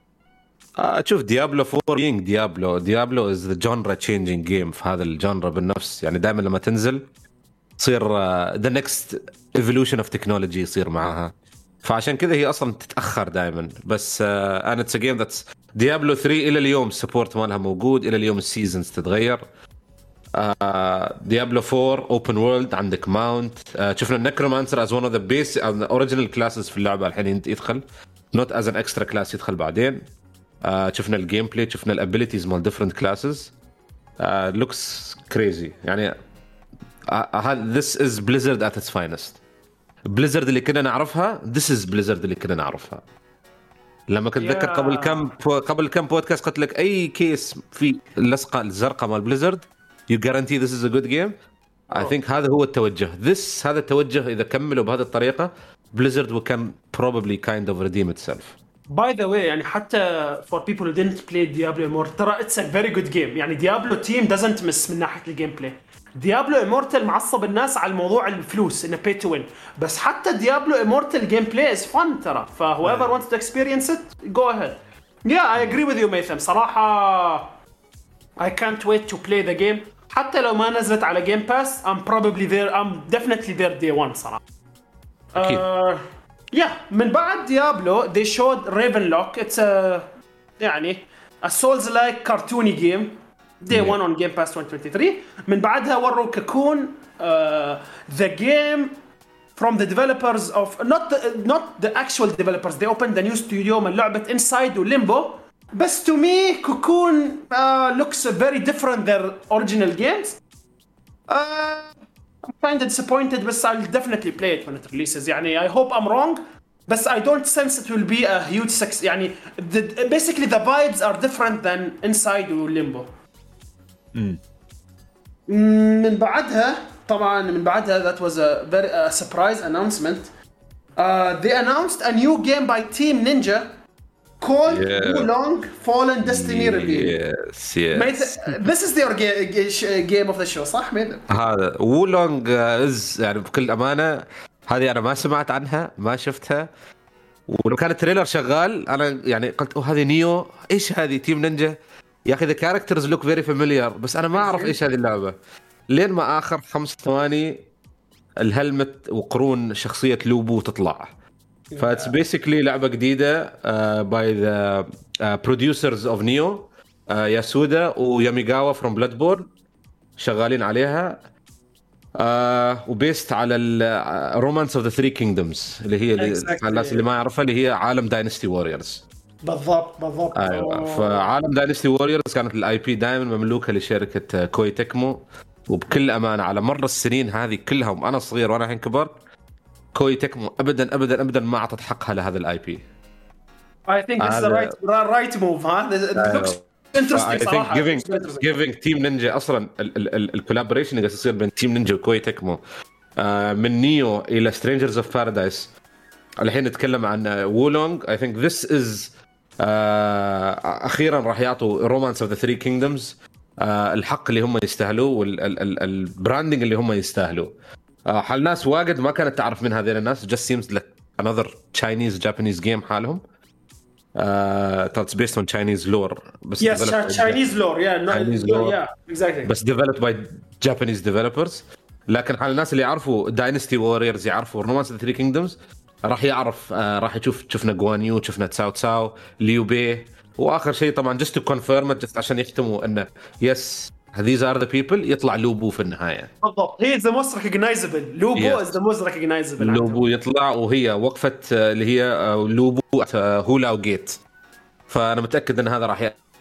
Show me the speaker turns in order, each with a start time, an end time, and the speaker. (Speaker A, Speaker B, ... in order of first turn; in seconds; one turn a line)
Speaker A: 0.8-7.0
Speaker A: 7.8-11.3
Speaker A: 11.8-19.4
Speaker A: 20.3-30.0
Speaker A: 30.6-33.5
Speaker A: 34.2-36.1
Speaker A: 37.1-39.4
Speaker A: 40.1-43.0
Speaker A: 44.1-51.3
Speaker B: 44.4-45.3
Speaker A: 51.9-58.5
Speaker B: 58.9-77.5
Speaker B: 78.4-84.4
Speaker A: 85.3-85.6
Speaker B: 85.3-86.0
Speaker B: 86.5-90.1
Speaker B: 90.6-98.9
Speaker A: 93.7-94.0
Speaker B: 99.5-110.4
Speaker B: 111.3-111.9
Speaker B: 112.5-123.1
Speaker B: 125.5-130.3
Speaker B: 131.0-133.7
Speaker B: 134.4-137.2
Speaker A: 134.7-135.3
Speaker A: 136.2-138.7
Speaker B: 137.9-141.3
Speaker A: 141.3-146.7
Speaker A: 147.5-155.3
Speaker B: 154.3-154.8
Speaker A: 155.9-157.6
Speaker A: 158.4-161.1
Speaker B: 161.7-162.2
Speaker A: 161.8-169.5
Speaker A: 170.2-171.2
Speaker A: 172.2-179.0
Speaker B: 176.2-177.1
Speaker B: 179.4-181.3
Speaker A: 180.3-189.1
Speaker A: 189.9-192.8
Speaker B: 193.9-198.5
Speaker A: 194.2-194.7
Speaker A: 196.2-196.6
Speaker A: 197.1-202.6
Speaker A: 203.2-205.7
Speaker A: 206.4-217.5
Speaker A: 218.1-223.2
Speaker A: 224.2-227.4
Speaker B: 226.6-229.5
Speaker A: 228.1-228.8
Speaker A: 229.4-246.3
Speaker B: 246.4-250.0
Speaker A: 248.3-248.7
Speaker A: 249.6-254.2
Speaker A: 254.9-256.2